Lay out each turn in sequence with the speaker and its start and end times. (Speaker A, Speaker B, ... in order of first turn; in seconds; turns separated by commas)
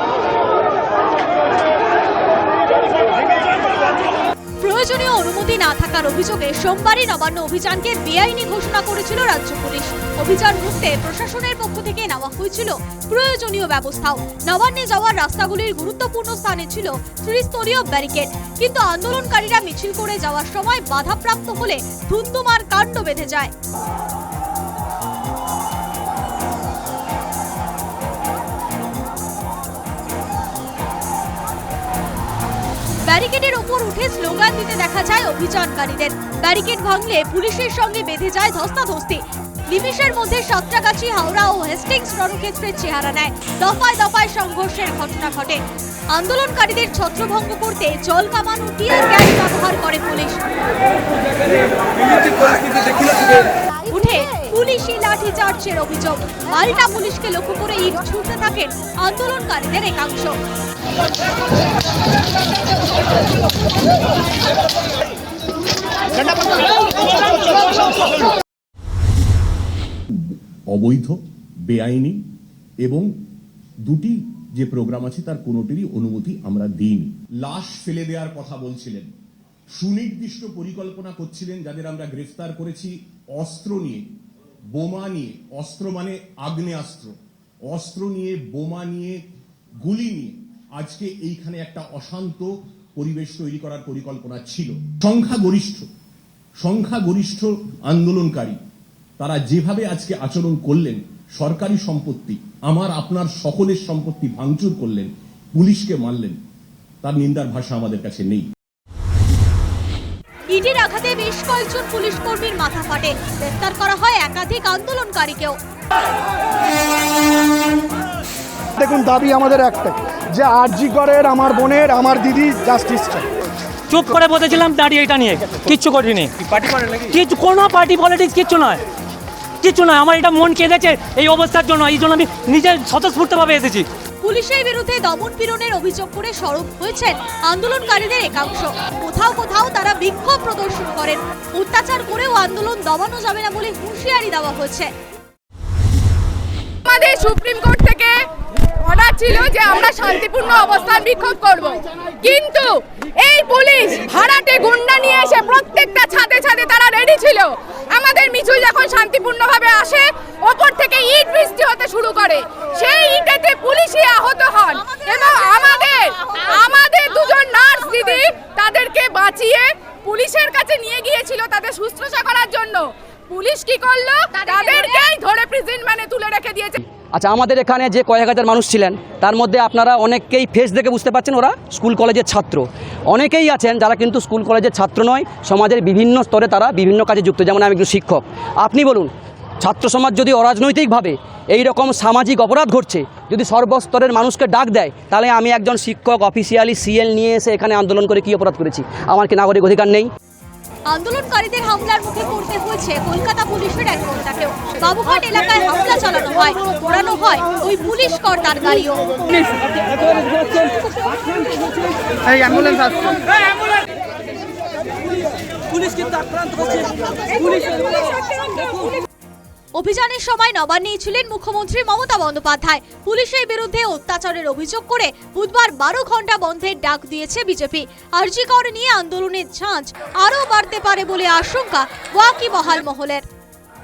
Speaker A: 4.6-23.5, Speaker A: 33.0-45.6, Speaker A: 46.1-50.5, Speaker A: 53.9-60.4, Speaker B: 70.7-71.2, Speaker B: 71.7-72.2, Speaker B: 72.8-73.1, Speaker B: 73.8-79.1, Speaker B: 79.8-84.0, Speaker B: 84.7-87.1, Speaker B: 87.7-89.2, Speaker B: 89.8-95.9, Speaker B: 96.6-98.6, Speaker B: 99.2-106.4, Speaker B: 107.0-108.5, Speaker A: 110.5-115.6, Speaker C: 118.8-123.3, Speaker D: 123.9-128.8, Speaker D: 129.6-133.9, Speaker A: 134.2-144.9, Speaker E: 146.8-148.2, Speaker E: 148.8-176.8, Speaker F: 177.1-200.1, Speaker A: 200.9-209.2, Speaker A: 212.5-212.8, Speaker A: 219.8-233.2